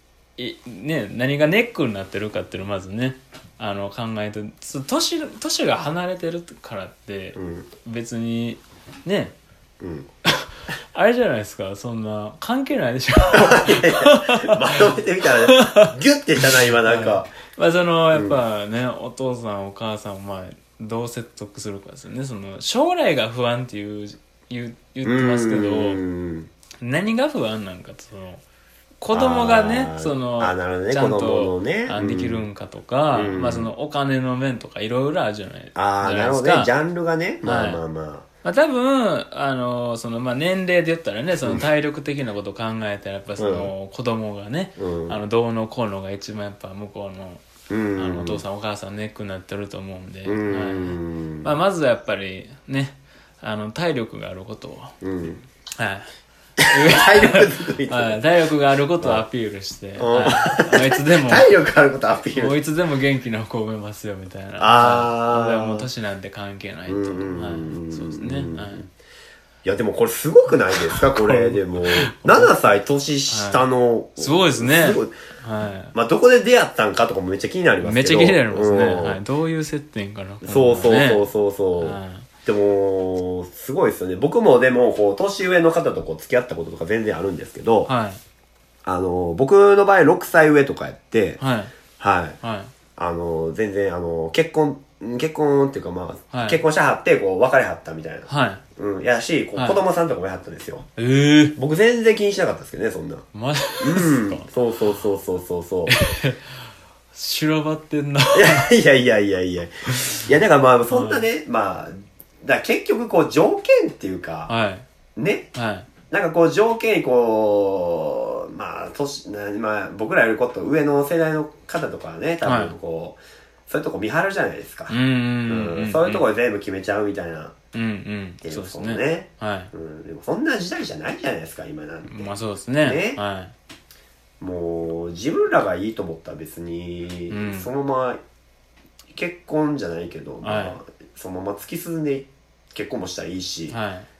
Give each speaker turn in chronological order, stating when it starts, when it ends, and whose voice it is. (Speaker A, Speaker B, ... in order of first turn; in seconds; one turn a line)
Speaker A: 0.4-9.3
Speaker B: 7.3-7.7
Speaker B: 9.8-10.1
Speaker A: 10.2-26.0
Speaker B: 13.3-17.3
Speaker B: 25.0-26.5
Speaker A: 26.8-28.4
Speaker A: 29.0-36.7
Speaker B: 29.1-32.5
Speaker B: 33.1-33.7
Speaker B: 35.7-38.2
Speaker A: 37.4-37.8
Speaker A: 38.4-47.4
Speaker B: 43.4-43.7
Speaker B: 44.8-45.2
Speaker B: 47.7-48.4
Speaker A: 48.0-55.0
Speaker B: 50.2-51.5
Speaker B: 55.0-55.4
Speaker A: 55.8-56.1
Speaker B: 56.6-58.2
Speaker A: 56.6-61.5
Speaker B: 60.0-62.5
Speaker A: 62.3-68.8
Speaker B: 64.6-65.9
Speaker B: 66.9-68.9
Speaker B: 69.6-75.1
Speaker A: 70.7-72.5
Speaker A: 73.3-73.6
Speaker A: 74.2-75.9
Speaker B: 75.9-79.2
Speaker A: 77.8-81.2
Speaker B: 80.4-87.9
Speaker A: 81.8-82.3
Speaker A: 87.8-88.2
Speaker B: 88.8-91.4
Speaker A: 91.4-91.7
Speaker B: 92.0-92.4
Speaker A: 92.4-92.7
Speaker B: 93.0-100.8
Speaker A: 96.3-96.6
Speaker A: 98.3-98.6
Speaker A: 99.5-99.8
Speaker A: 101.0-101.5
Speaker B: 101.5-103.2
Speaker A: 103.3-104.5
Speaker B: 103.8-106.0
Speaker A: 105.9-106.6
Speaker A: 107.1-108.7
Speaker B: 108.3-114.5
Speaker A: 109.9-110.2
Speaker A: 110.9-111.2
Speaker A: 114.5-114.8
Speaker B: 115.2-115.5
Speaker A: 115.5-115.9
Speaker B: 116.1-124.9
Speaker A: 122.4-122.7
Speaker A: 124.9-126.2
Speaker B: 125.5-127.5
Speaker A: 127.7-129.7
Speaker B: 128.4-132.3
Speaker A: 132.1-133.5
Speaker B: 132.8-133.2
Speaker B: 134.4-138.2
Speaker A: 137.3-137.7
Speaker B: 139.1-143.8
Speaker A: 140.4-140.8
Speaker A: 143.7-144.1